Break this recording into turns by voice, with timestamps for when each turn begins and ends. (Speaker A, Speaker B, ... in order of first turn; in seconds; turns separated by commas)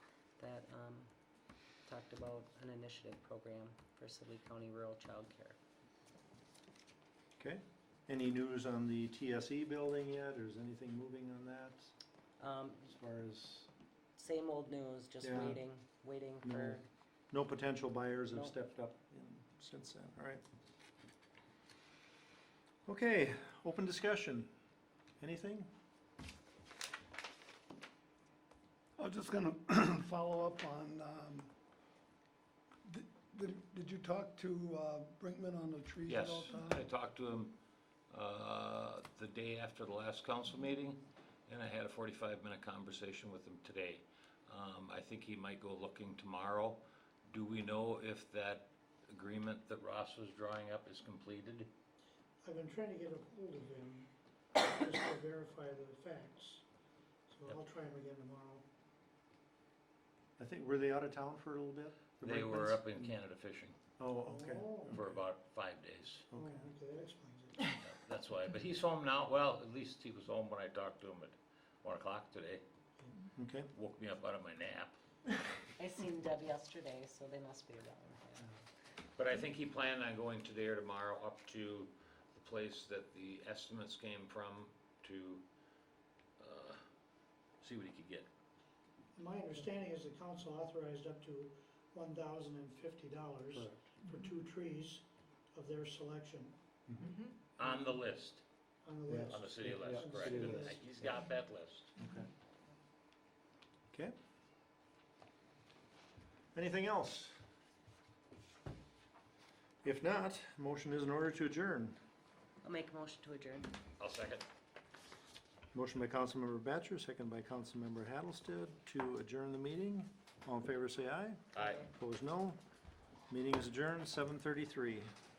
Speaker A: 0.4-1.1, Speaker A: 1.9-5.6, Speaker B: 7.4-11.9, Speaker A: 12.4-12.9, Speaker B: 12.9-13.7, Speaker A: 14.2-16.9, Speaker B: 15.2-15.6, Speaker B: 16.4-16.8, Speaker B: 17.3-20.4, Speaker B: 22.9-24.5, Speaker B: 25.2-25.7, Speaker C: 29.0-31.5, Speaker C: 32.9-36.9, Speaker D: 36.1-37.6, Speaker D: 38.1-51.7, Speaker E: 52.4-56.6, Speaker E: 57.3-58.6, Speaker B: 60.4-63.1, Speaker D: 62.2-63.8, Speaker B: 64.0-65.0, Speaker E: 64.2-65.0, Speaker D: 64.9-66.3, Speaker B: 66.3-66.7, Speaker E: 66.3-67.8, Speaker D: 67.8-72.6, Speaker B: 73.2-73.7, Speaker D: 73.7-75.0, Speaker A: 75.8-78.5, Speaker D: 79.2-85.4, Speaker D: 86.4-86.8, Speaker D: 87.6-88.3, Speaker E: 89.2-96.6, Speaker B: 93.5-94.0, Speaker D: 97.6-98.4, Speaker E: 98.8-100.8, Speaker B: 99.1-101.1, Speaker D: 99.3-101.9, Speaker B: 102.0-102.3, Speaker B: 106.5-107.4, Speaker B: 109.8-112.0, Speaker A: 112.6-113.8, Speaker D: 114.0-114.5, Speaker B: 115.7-122.6, Speaker D: 121.5-121.9, Speaker B: 123.3-125.1